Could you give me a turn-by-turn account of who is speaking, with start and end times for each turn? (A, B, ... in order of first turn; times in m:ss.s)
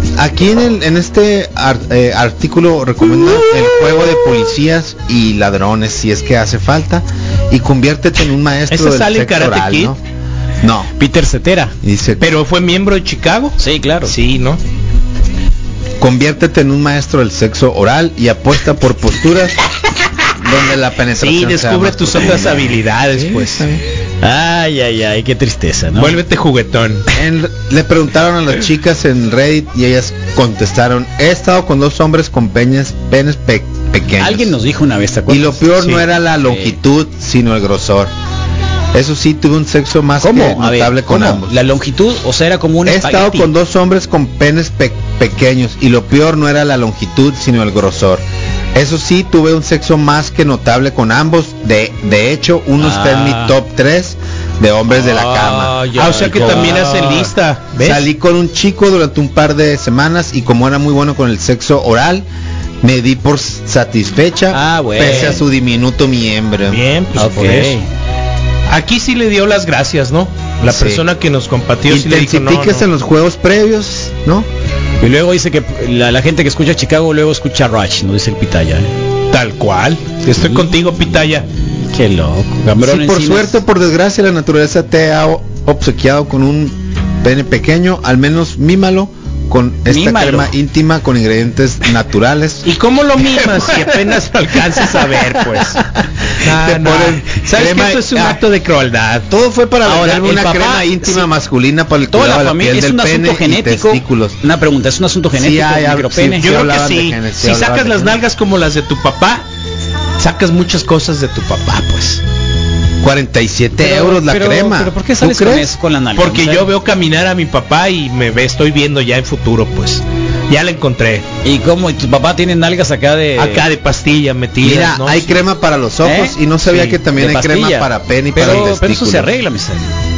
0:00.2-0:10.0 A
0:08.7-0:09.9 B
0:10.6-0:10.9 A
0:11.0-0:11.7 C
0:11.8-0:12.3 A
0:12.2-0:14.6 B
0:13.6-0:14.1 C
0:16.0-0:19.6 A
0:20.2-0:23.8 A
0:21.2-0:23.7 B
0:24.2-0:26.2 C
0:26.0-0:27.1 B
0:27.1-0:34.6 A
0:34.2-0:35.6 C
0:35.3-0:38.1 A
0:36.4-0:36.8 C
0:38.9-0:41.6 A
0:40.2-0:43.5 C
0:42.8-0:48.2 A
0:48.7-0:56.8 A
0:52.8-0:53.5 C
0:54.9-0:57.3 C
0:56.0-0:58.1 B
0:57.8-1:02.2 A
1:02.8-1:06.8 A
1:04.5-1:05.4 C
1:05.1-1:05.3 B
1:06.7-1:07.8 B
1:07.1-1:07.9 C
1:08.7-1:12.8 B
1:10.6-1:11.0 A
1:11.9-1:14.5 A
1:15.0-1:18.9 C
1:19.3-1:21.4 B
1:20.3-1:20.7 C
1:21.9-1:23.6 C
1:22.8-1:32.7 A
1:29.9-1:30.5 C
1:32.6-1:35.8 B
1:33.3-1:34.2 A
1:34.7-1:38.4 A
1:36.4-1:39.2 B
1:39.3-1:44.4 A
1:39.8-1:41.2 C
1:42.1-1:46.5 C
1:45.3-1:48.2 A
1:46.4-1:49.4 B
1:50.2-1:52.2 B
1:53.0-1:55.7 A
1:53.8-1:56.7 C
1:56.2-2:01.2 B
2:01.4-2:03.6 C
2:03.4-2:05.4 B
2:04.6-2:09.3 A
2:06.0-2:09.9 C